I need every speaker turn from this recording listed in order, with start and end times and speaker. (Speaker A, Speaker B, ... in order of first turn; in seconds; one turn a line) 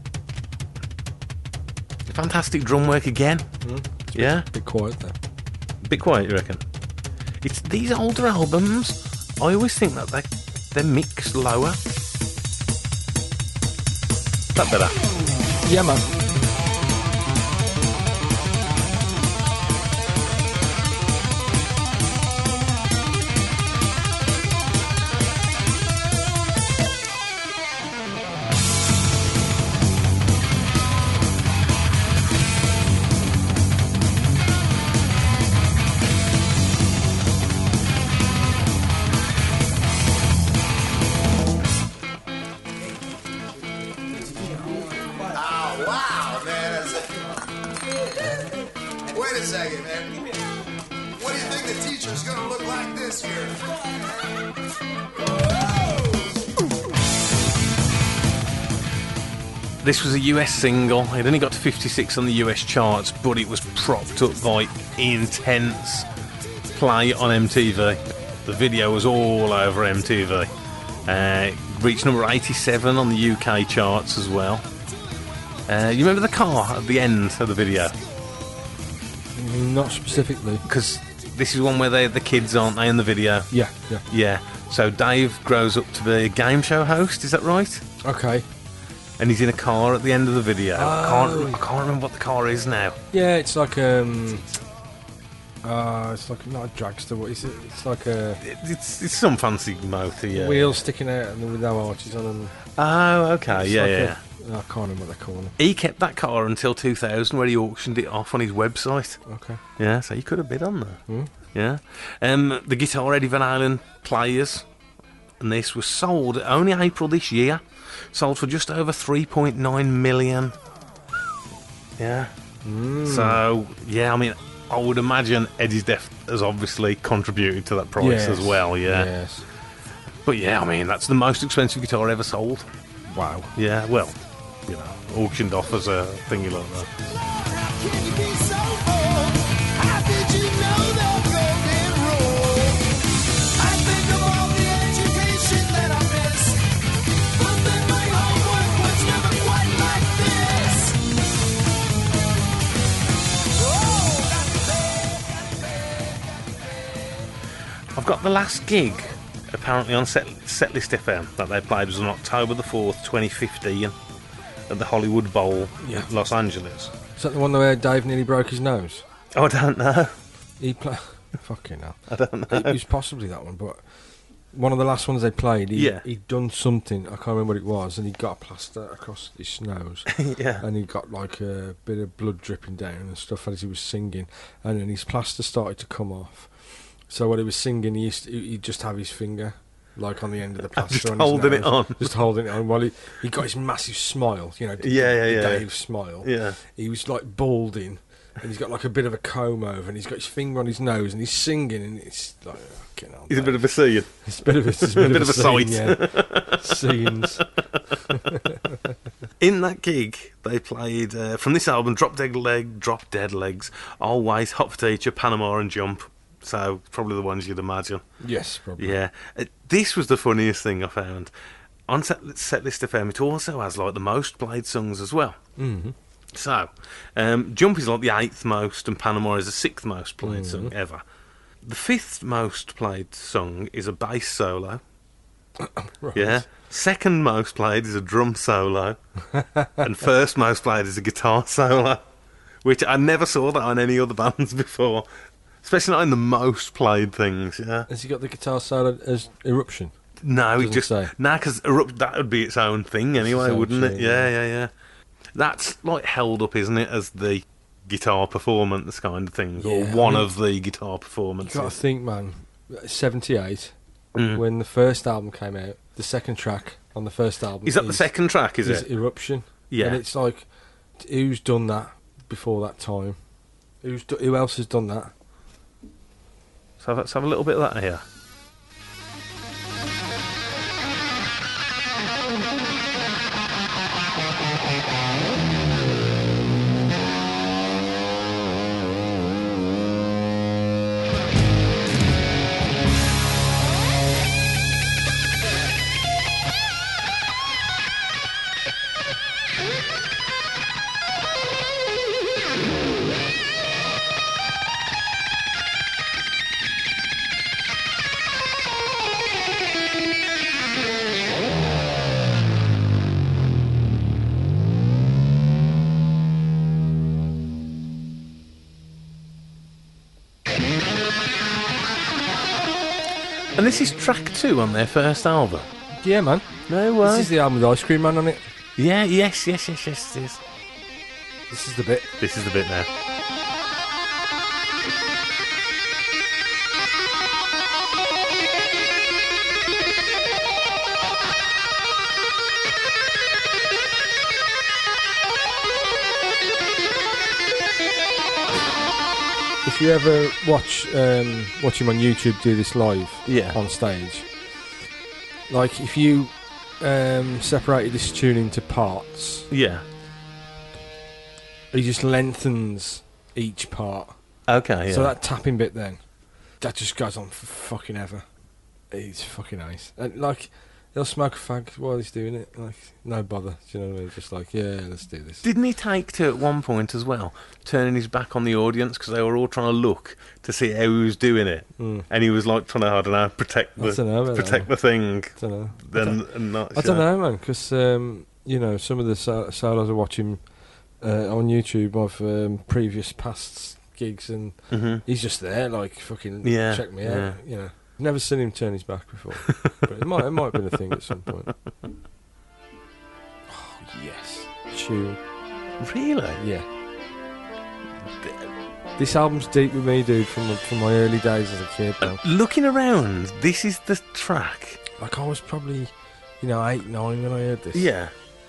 Speaker A: 2.0-3.5
Speaker B: 3.6-5.2
Speaker A: 4.1-4.5
Speaker A: 5.8-6.6
Speaker A: 7.4-11.8
Speaker A: 14.5-14.9
Speaker B: 15.6-16.1
Speaker C: 44.5-47.2
Speaker C: 49.1-50.3
Speaker C: 51.1-53.6
Speaker A: 59.8-66.1
Speaker A: 66.7-70.5
Speaker A: 71.0-74.7
Speaker A: 75.7-78.0
Speaker B: 79.3-80.6
Speaker A: 80.6-83.5
Speaker B: 83.5-84.0
Speaker A: 84.1-87.8
Speaker B: 88.0-88.5
Speaker A: 89.2-93.0
Speaker B: 90.7-91.6
Speaker B: 93.1-94.5
Speaker B: 95.6-98.4
Speaker A: 98.4-100.8
Speaker B: 100.3-102.5
Speaker A: 102.8-104.2
Speaker B: 103.5-105.5
Speaker A: 105.6-109.2
Speaker B: 109.2-109.6
Speaker A: 109.8-111.0
Speaker A: 111.5-114.7
Speaker A: 115.4-120.6
Speaker A: 122.0-122.3
Speaker B: 122.6-123.4
Speaker A: 123.0-129.1
Speaker B: 128.0-129.4
Speaker A: 130.2-132.7
Speaker B: 133.1-133.5
Speaker A: 133.6-136.9
Speaker C: 137.0-146.6
Speaker C: 147.4-151.0
Speaker C: 153.6-154.8
Speaker A: 157.9-163.9
Speaker A: 164.7-166.9
Speaker B: 165.8-166.1
Speaker B: 167.2-169.0
Speaker A: 169.3-170.1
Speaker B: 170.6-173.8
Speaker A: 172.1-172.8
Speaker B: 174.5-203.7
Speaker A: 175.7-176.0
Speaker A: 180.1-180.6
Speaker A: 190.7-192.1
Speaker A: 194.8-195.7
Speaker A: 196.2-196.6
Speaker A: 203.3-204.1
Speaker B: 204.2-207.4
Speaker A: 204.8-208.0
Speaker B: 208.1-208.9
Speaker A: 209.4-218.0
Speaker B: 218.2-219.0
Speaker A: 218.8-221.3
Speaker A: 221.9-225.4
Speaker B: 225.6-225.9
Speaker A: 226.3-231.0
Speaker B: 230.2-230.7
Speaker A: 231.6-234.8
Speaker B: 235.6-236.5
Speaker A: 236.1-239.0
Speaker B: 239.3-239.8
Speaker A: 239.8-242.0
Speaker A: 242.6-245.1
Speaker A: 245.6-247.9
Speaker B: 247.9-249.9
Speaker A: 250.2-254.7
Speaker B: 250.6-251.1
Speaker B: 253.2-254.3
Speaker A: 255.3-261.7
Speaker B: 259.6-260.3
Speaker B: 261.4-263.7
Speaker A: 264.1-264.4
Speaker B: 264.3-268.1
Speaker A: 267.6-268.9
Speaker B: 268.6-270.5
Speaker A: 269.7-270.0
Speaker B: 271.0-273.2
Speaker B: 273.8-275.1
Speaker A: 276.8-278.0
Speaker A: 323.5-325.7
Speaker B: 326.0-326.5
Speaker A: 326.7-327.3
Speaker B: 327.0-328.5
Speaker A: 328.8-330.4
Speaker B: 331.5-332.1
Speaker A: 332.2-332.9
Speaker B: 349.6-354.3
Speaker A: 353.2-353.6
Speaker B: 355.5-359.5
Speaker A: 359.5-359.8
Speaker B: 361.7-364.1
Speaker A: 364.5-365.1
Speaker B: 364.9-366.0
Speaker B: 366.6-368.2
Speaker B: 368.9-375.4
Speaker A: 375.4-387.1
Speaker B: 381.8-382.1
Speaker B: 383.8-384.7
Speaker B: 385.4-390.4
Speaker B: 391.0-401.5
Speaker A: 394.7-395.0
Speaker A: 396.4-397.4
Speaker B: 403.5-405.2
Speaker A: 405.8-406.4
Speaker B: 406.4-406.6
Speaker A: 408.2-408.5
Speaker B: 409.0-412.2
Speaker A: 412.0-414.8
Speaker B: 415.0-417.9
Speaker A: 417.7-418.1